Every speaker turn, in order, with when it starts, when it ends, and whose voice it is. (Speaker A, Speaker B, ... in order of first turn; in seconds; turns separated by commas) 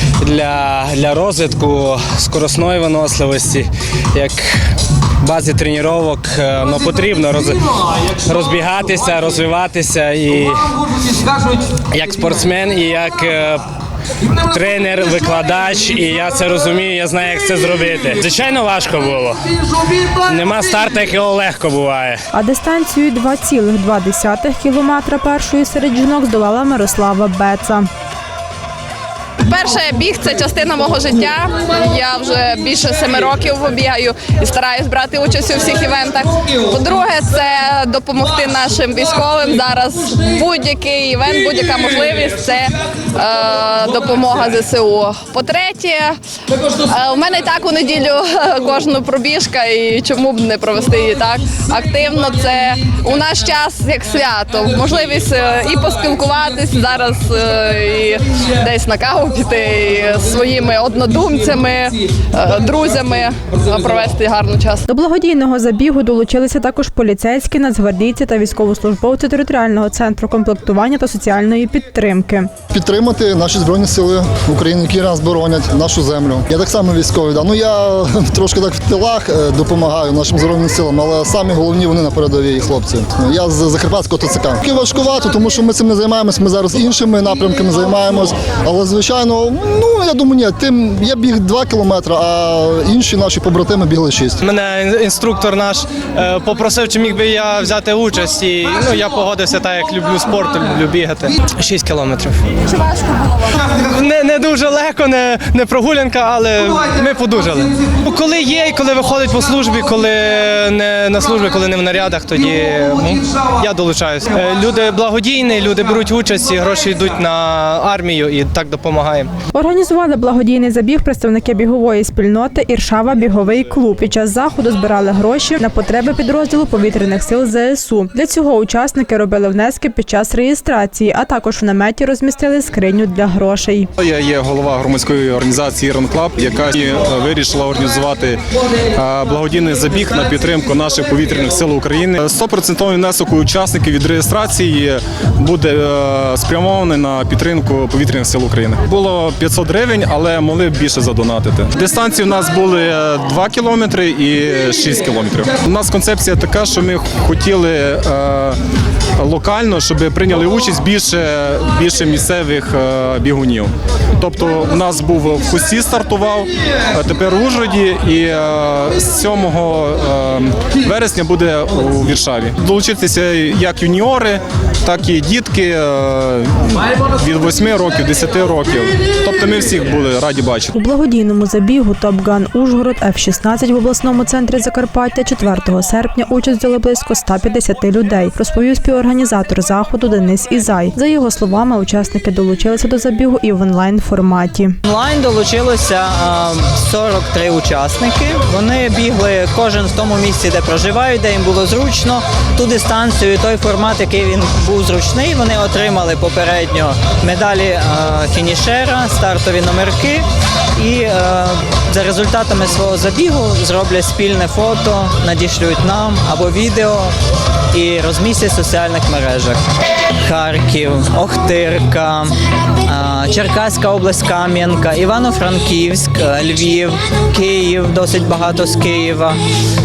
Speaker A: 0.2-4.6, Speaker A: 5.2-13.6, Speaker A: 14.2-22.2, Speaker B: 22.3-27.9, Speaker C: 29.5-64.8, Speaker B: 64.9-72.5, Speaker D: 72.7-94.5, Speaker E: 94.4-102.6, Speaker E: 103.6-119.3, Speaker B: 119.5-133.9, Speaker F: 134.0-138.4, Speaker F: 138.9-158.6, Speaker F: 159.2-180.7, Speaker B: 180.7-194.8, Speaker G: 194.8-210.2, Speaker G: 210.8-217.1, Speaker G: 217.7-219.6, Speaker G: 220.2-229.4